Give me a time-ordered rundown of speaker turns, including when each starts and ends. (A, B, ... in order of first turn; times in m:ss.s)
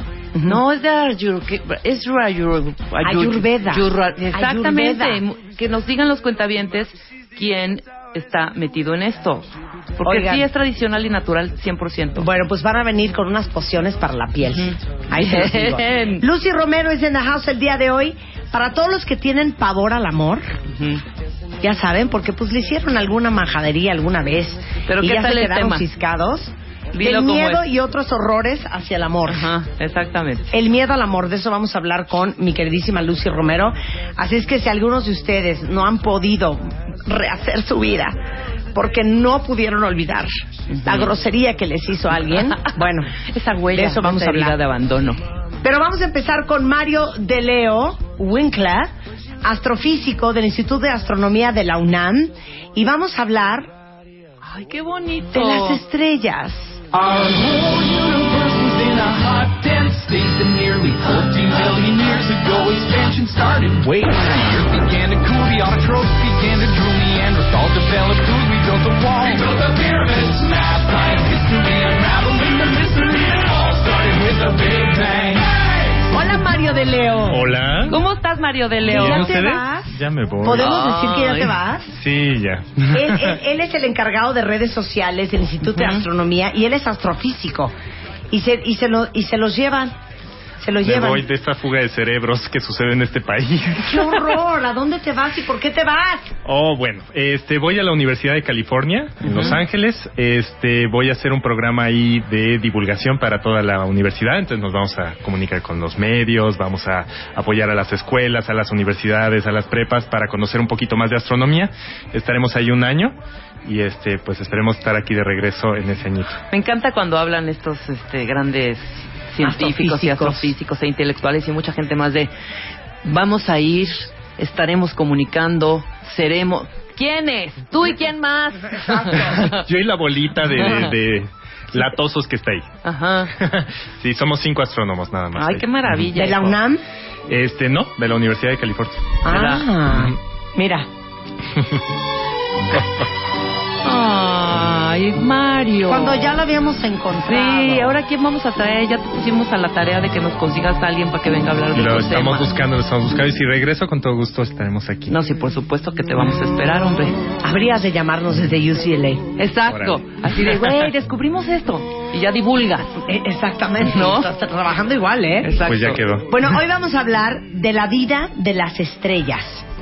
0:00.4-0:00.6 A
0:00.4-0:12.2 B
0:03.0-0:05.2 A
0:10.0-0:10.5 A
0:12.2-0:20.5 A
0:14.4-0:16.3 B
0:20.7-0:21.0 B
0:21.6-0:29.5 A
0:24.8-0:25.9 B
0:26.9-0:27.6 B
0:29.3-0:30.5 B
0:30.5-0:38.2 A
0:38.7-0:40.3 A
0:40.7-0:41.1 B
0:40.8-0:43.2 A
0:43.2-0:45.2 B
0:43.7-0:44.6 A
0:45.6-0:53.7 A
0:54.4-0:55.8 B
0:55.3-0:56.8 A
0:56.9-1:16.4 C
1:16.1-1:17.4 A
1:17.3-1:18.0 D
1:17.9-1:19.3 B
1:18.8-1:22.0 A
1:18.9-1:20.7 D
1:20.6-1:21.6 B
1:21.9-1:23.4 D
1:22.9-1:27.7 A
1:25.6-1:26.1 B
1:28.3-1:30.0 A
1:30.6-1:31.2 A
1:30.8-1:34.4 D
1:33.8-1:36.3 A
1:36.4-1:56.4 D
1:39.2-1:39.6 B
1:56.5-2:02.3 B
1:59.4-2:00.5 A
2:03.0-2:09.5 B
2:09.1-2:12.7 D
2:10.6-2:10.9 B
2:12.8-2:13.3 B
2:13.4-2:16.1 D
2:15.4-2:16.6 B
2:16.1-2:16.8 A
2:17.3-2:19.2 D
2:19.2-2:20.9 A
2:19.3-2:19.7 B
2:19.9-2:20.2 D
2:22.7-2:23.0 D
2:23.8-2:26.4 B
2:25.9-2:28.0 A
2:27.2-2:32.5 B
2:31.7-2:35.2 D
2:35.1-2:37.2 B
2:37.4-2:39.3 A
2:39.4-2:42.9 B
2:39.7-2:40.8 D
2:43.0-2:45.6 A
2:43.8-2:44.3 B
2:45.4-2:46.0 B
2:45.7-2:46.3 D
2:46.3-2:49.7 A